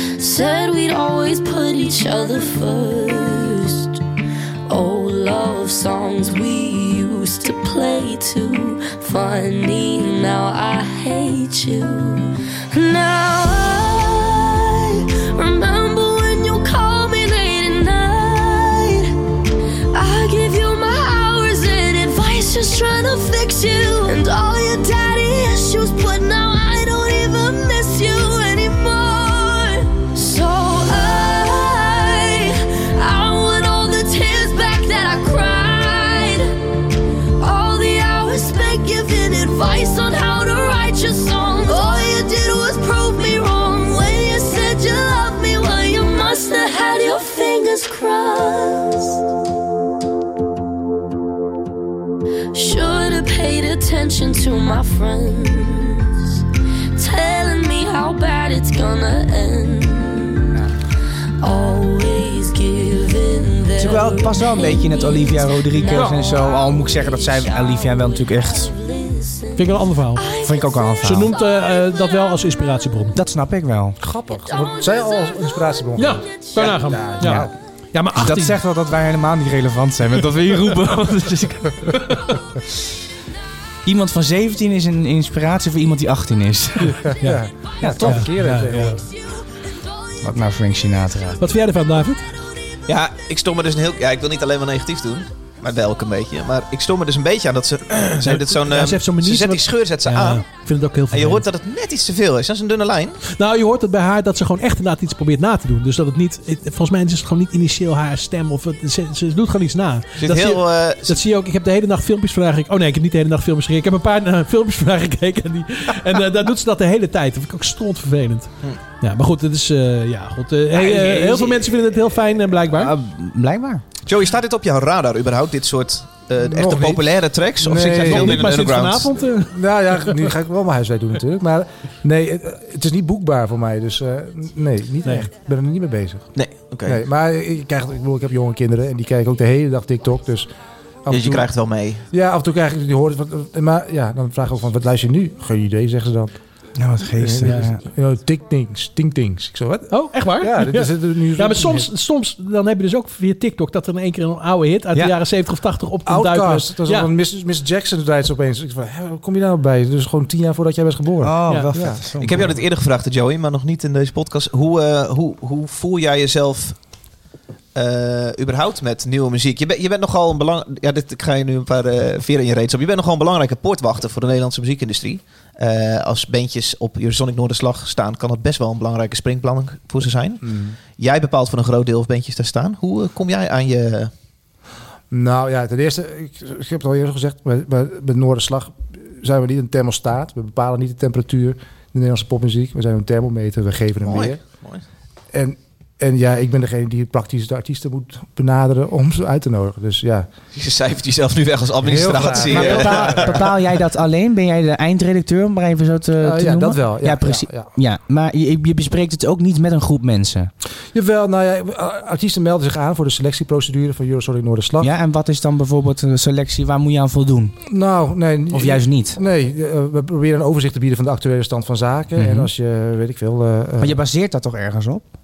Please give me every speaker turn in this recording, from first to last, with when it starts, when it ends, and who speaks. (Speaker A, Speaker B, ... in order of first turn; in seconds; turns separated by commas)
Speaker A: 0.2-4.0, Speaker A: 4.7-19.1, Speaker A: 19.9-36.5, Speaker A: 37.4-49.2, Speaker A: 52.5-56.4, Speaker A: 57.0-60.6, Speaker A: 61.4-71.0, Speaker B: 63.7-68.7, Speaker C: 65.9-66.3, Speaker C: 69.5-70.3, Speaker B: 70.4-71.3, Speaker C: 71.0-73.2, Speaker B: 73.1-74.0, Speaker D: 74.0-77.5, Speaker A: 74.3-75.7, Speaker C: 76.0-78.6, Speaker B: 78.1-81.9, Speaker C: 80.5-82.4, Speaker B: 83.8-87.0, Speaker D: 87.0-89.0, Speaker C: 87.2-87.4, Speaker B: 87.8-88.2, Speaker C: 88.0-89.0, Speaker B: 90.2-91.4, Speaker C: 91.4-92.3, Speaker E: 92.9-100.4, Speaker C: 98.2-101.4, Speaker E: 101.1-103.2, Speaker C: 103.3-122.9, Speaker E: 110.2-111.2, Speaker E: 120.8-122.2, Speaker B: 122.7-123.8, Speaker E: 124.0-129.1, Speaker D: 126.4-128.5, Speaker C: 127.9-130.3, Speaker D: 129.5-136.3, Speaker E: 136.3-137.0, Speaker D: 136.8-140.5, Speaker D: 141.0-141.5, Speaker E: 141.1-142.0, Speaker D: 142.1-146.3, Speaker B: 146.8-147.8, Speaker D: 147.1-151.9, Speaker C: 147.4-147.7, Speaker C: 149.9-157.1, Speaker D: 156.0-162.0, Speaker B: 161.2-162.6, Speaker E: 162.2-166.8, Speaker E: 167.7-180.4, Speaker D: 180.4-180.8, Speaker E: 181.0-184.1, Speaker D: 185.1-194.4, Speaker E: 194.0-194.8, Speaker D: 195.3-200.3, Speaker E: 200.5-203.4, Speaker D: 201.8-203.5, Speaker B: 202.2-210.5, Speaker D: 206.2-207.7, Speaker D: 210.9-214.9, Speaker B: 214.8-217.6, Speaker D: 217.7-224.0, Speaker B: 218.5-219.2, Speaker B: 222.2-222.5, Speaker B: 223.8-225.0